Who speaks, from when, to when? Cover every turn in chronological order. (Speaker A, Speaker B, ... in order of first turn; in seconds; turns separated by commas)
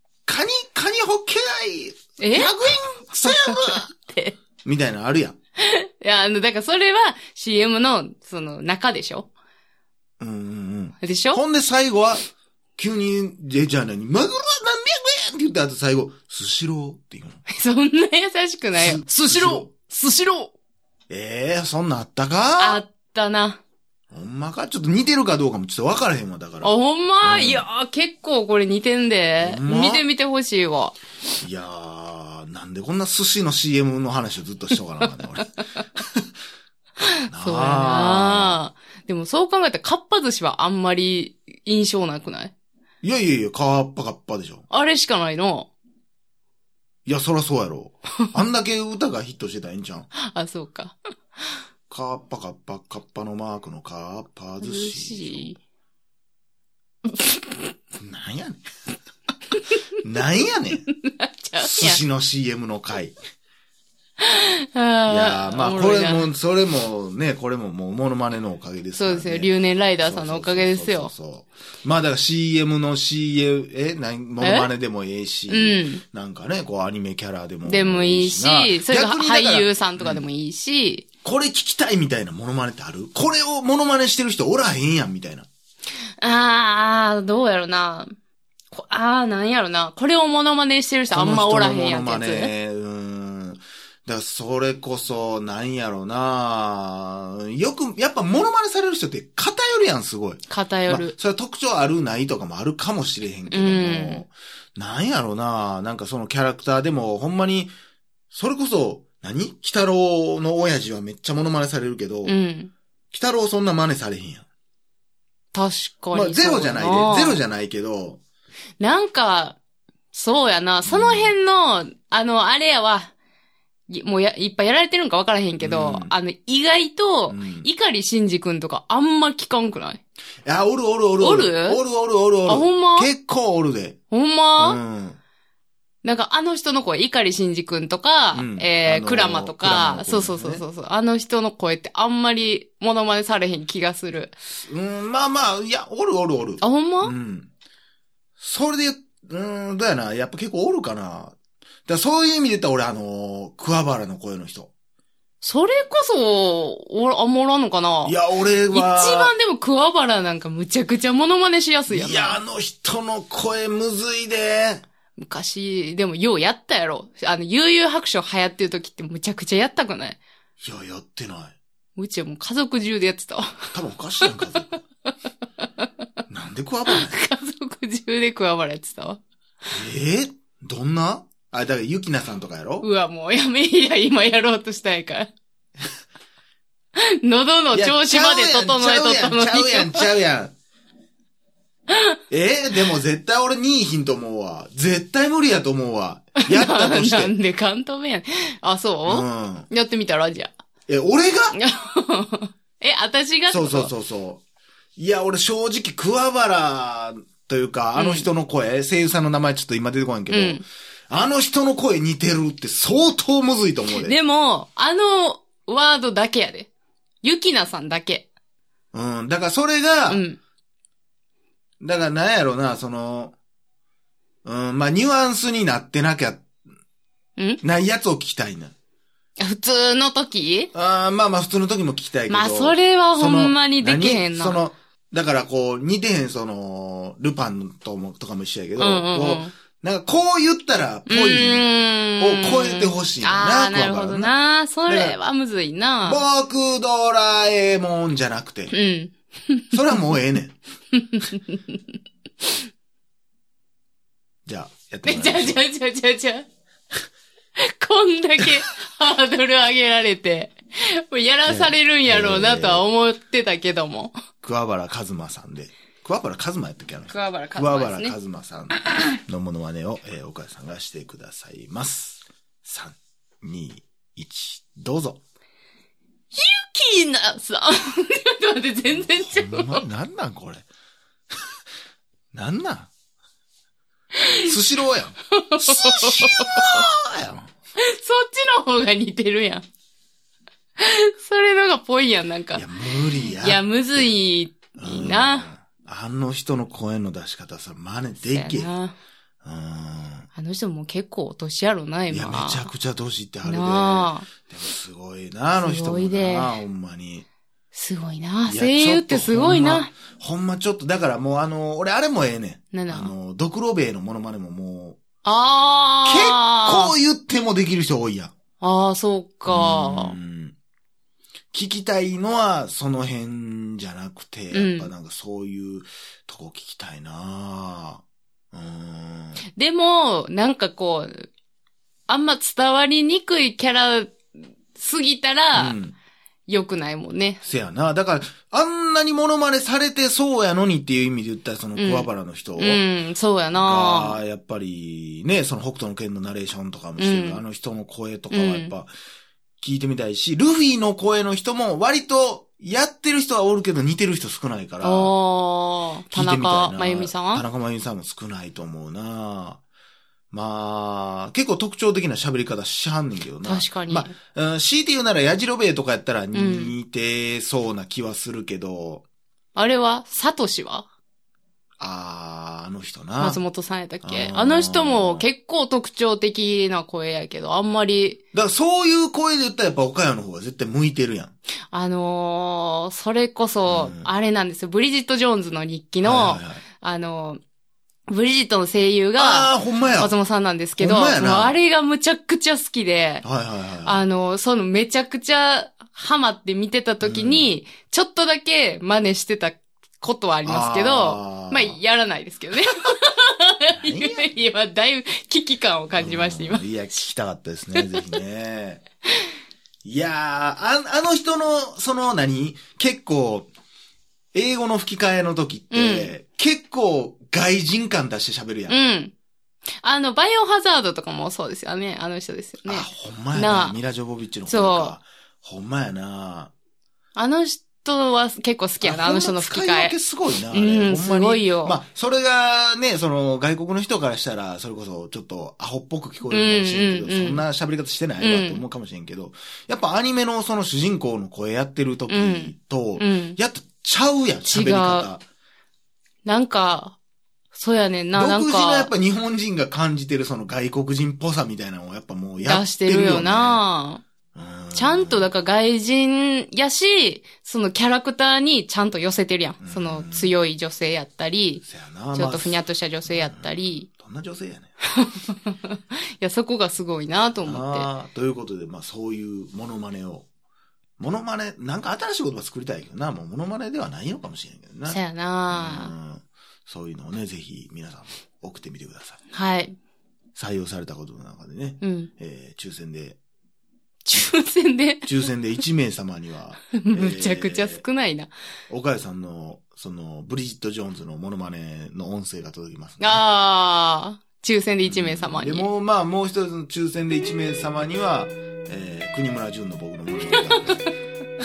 Speaker A: 0.2-3.9, Speaker B: 2.2-4.3, Speaker A: 4.6-5.3, Speaker B: 5.6-9.3, Speaker A: 10.2-12.2, Speaker B: 11.0-11.4, Speaker A: 12.8-17.4, Speaker B: 17.5-20.5, Speaker A: 18.8-19.7, Speaker A: 21.1-22.8, Speaker B: 22.6-23.6, Speaker A: 24.1-26.7, Speaker B: 26.6-31.0, Speaker A: 27.2-27.6, Speaker A: 29.4-30.0, Speaker A: 31.4-35.5, Speaker B: 35.0-35.4, Speaker B: 37.0-42.5, Speaker A: 37.3-38.6, Speaker A: 43.0-44.6, Speaker B: 44.7-45.7, Speaker A: 47.0-50.1, Speaker B: 50.2-51.0, Speaker A: 51.9-55.5, Speaker B: 54.6-55.6, Speaker A: 58.0-58.6, Speaker A: 60.0-60.8, Speaker B: 61.0-62.0, Speaker A: 61.6-63.1, Speaker B: 64.2-66.3, Speaker A: 65.1-80.2, Speaker B: 69.0-71.1, Speaker B: 74.4-74.7, Speaker B: 75.5-76.0, Speaker B: 77.6-81.0, Speaker A: 81.2-85.5, Speaker B: 86.2-88.1, Speaker B: 88.7-92.5, Speaker A: 91.1-107.7, Speaker B: 100.5-101.1, Speaker B: 103.5-104.2, Speaker A: 108.3-112.3, Speaker B: 112.2-112.7, Speaker A: 113.1-114.5, Speaker B: 115.5-117.4, Speaker A: 116.1-118.2, Speaker B: 118.8-119.6, Speaker B: 120.1-123.1, Speaker A: 120.8-121.3, Speaker B: 123.9-130.0, Speaker A: 125.6-126.1, Speaker A: 127.3-127.7, Speaker A: 130.4-134.0, Speaker B: 131.2-131.8, Speaker B: 132.5-133.1, Speaker B: 134.1-134.8, Speaker A: 134.6-135.2, Speaker B: 136.0-144.3, Speaker A: 138.3-140.6, Speaker A: 144.4-147.5, Speaker B: 146.6-147.1, Speaker A: 148.4-151.3, Speaker A: 151.9-154.7, Speaker B: 155.4-158.1, Speaker A: 158.0-159.3, Speaker B: 158.7-162.4, Speaker A: 161.9-164.8, Speaker B: 165.2-170.2, Speaker A: 170.6-171.6, Speaker B: 171.9-173.7, Speaker A: 173.7-174.8, Speaker A: 176.3-177.2, Speaker B: 176.9-179.2, Speaker A: 179.7-182.9, Speaker B: 182.8-185.3, Speaker B: 187.0-190.1, Speaker A: 187.7-190.5, Speaker A: 192.3-197.3, Speaker B: 196.4-200.5, Speaker A: 199.1-199.7, Speaker A: 200.9-201.6, Speaker B: 201.5-203.9, Speaker A: 203.5-204.4, Speaker A: 205.0-214.1, Speaker B: 207.9-208.3, Speaker B: 210.3-210.6, Speaker B: 213.9-216.7, Speaker B: 217.2-218.2, Speaker A: 218.9-220.2, Speaker B: 220.1-220.4, Speaker A: 221.8-223.3, Speaker A: 224.4-226.5, Speaker B: 227.4-227.6, Speaker A: 227.6-228.7, Speaker B: 229.4-230.7, Speaker A: 230.7-241.7, Speaker B: 232.3-234.6, Speaker B: 238.8-239.5, Speaker B: 241.1-246.2, Speaker A: 242.2-244.3, Speaker A: 244.8-245.2, Speaker A: 246.0-248.7, Speaker B: 248.7-249.7, Speaker A: 249.7-250.6, Speaker B: 250.9-251.8, Speaker A: 254.4-255.6, Speaker B: 255.0-256.4, Speaker B: 257.6-264.1, Speaker A: 261.4-262.9, Speaker A: 264.4-275.2, Speaker B: 267.1-268.1, Speaker B: 276.3-279.8, Speaker A: 278.9-280.6, Speaker A: 282.3-282.9, Speaker B: 284.1-284.5, Speaker A: 284.4-287.5, Speaker B: 285.3-286.9, Speaker B: 287.8-289.6, Speaker B: 290.8-292.6, Speaker A: 292.5-294.1, Speaker B: 293.2-295.5, Speaker A: 294.8-298.7, Speaker B: 298.3-298.9, Speaker A: 299.4-300.3, Speaker B: 300.3-302.7, Speaker A: 302.1-307.2, Speaker B: 303.4-304.3, Speaker B: 305.6-306.5, Speaker B: 307.7-309.9, Speaker A: 308.4-315.0, Speaker B: 312.7-313.1, Speaker B: 315.2-316.9, Speaker A: 316.0-318.3, Speaker B: 318.6-320.1, Speaker A: 319.5-320.5, Speaker A: 321.5-329.4, Speaker B: 324.5-324.9, Speaker B: 329.6-331.3, Speaker B: 332.1-334.2, Speaker B: 334.7-335.8, Speaker A: 335.5-335.9, Speaker B: 336.5-337.4, Speaker A: 337.4-342.8, Speaker B: 341.8-344.2, Speaker A: 343.5-348.9, Speaker B: 347.0-347.4, Speaker B: 348.3-348.7, Speaker A: 349.6-355.1, Speaker B: 354.8-357.4, Speaker A: 356.1-359.6, Speaker A: 360.3-369.0, Speaker B: 363.4-364.1, Speaker B: 366.3-366.7, Speaker B: 369.5-370.9, Speaker A: 371.8-373.4, Speaker B: 373.2-378.2, Speaker A: 374.0-375.2, Speaker A: 378.3-381.3, Speaker B: 381.7-387.4, Speaker A: 383.7-384.1, Speaker A: 386.0-386.6, Speaker B: 388.1-393.2, Speaker A: 389.2-390.1, Speaker A: 390.8-391.6, Speaker A: 393.2-394.0, Speaker B: 393.8-406.8, Speaker A: 397.0-397.5, Speaker A: 400.4-401.8, Speaker A: 403.7-404.3, Speaker A: 405.9-408.8, Speaker B: 407.7-408.2, Speaker A: 409.8-413.5, Speaker A: 414.3-418.8, Speaker B: 415.7-416.1, Speaker B: 418.7-419.1, Speaker B: 419.8-423.8, Speaker A: 422.6-426.5, Speaker B: 424.5-425.0, Speaker B: 427.1-429.9, Speaker A: 428.8-445.2, Speaker B: 430.5-431.8, Speaker B: 436.3-437.4, Speaker B: 438.2-438.6, Speaker B: 442.1-443.4, Speaker B: 444.4-445.1, Speaker B: 446.2-446.9, Speaker B: 447.5-448.9, Speaker A: 448.1-453.6, Speaker B: 452.4-454.0, Speaker A: 454.3-455.3, Speaker B: 454.7-461.6, Speaker A: 459.6-460.3, Speaker A: 461.6-464.7, Speaker B: 462.1-463.9, Speaker B: 464.9-467.9, Speaker A: 467.4-470.2, Speaker A: 471.0-479.2, Speaker B: 474.9-475.9, Speaker B: 479.3-479.8, Speaker A: 480.4-483.2, Speaker B: 481.8-482.1, Speaker B: 484.1-485.1, Speaker A: 485.1-487.8, Speaker B: 486.7-488.3, Speaker A: 488.7-493.2, Speaker B: 493.0-495.6, Speaker A: 494.8-500.8, Speaker B: 500.3-500.8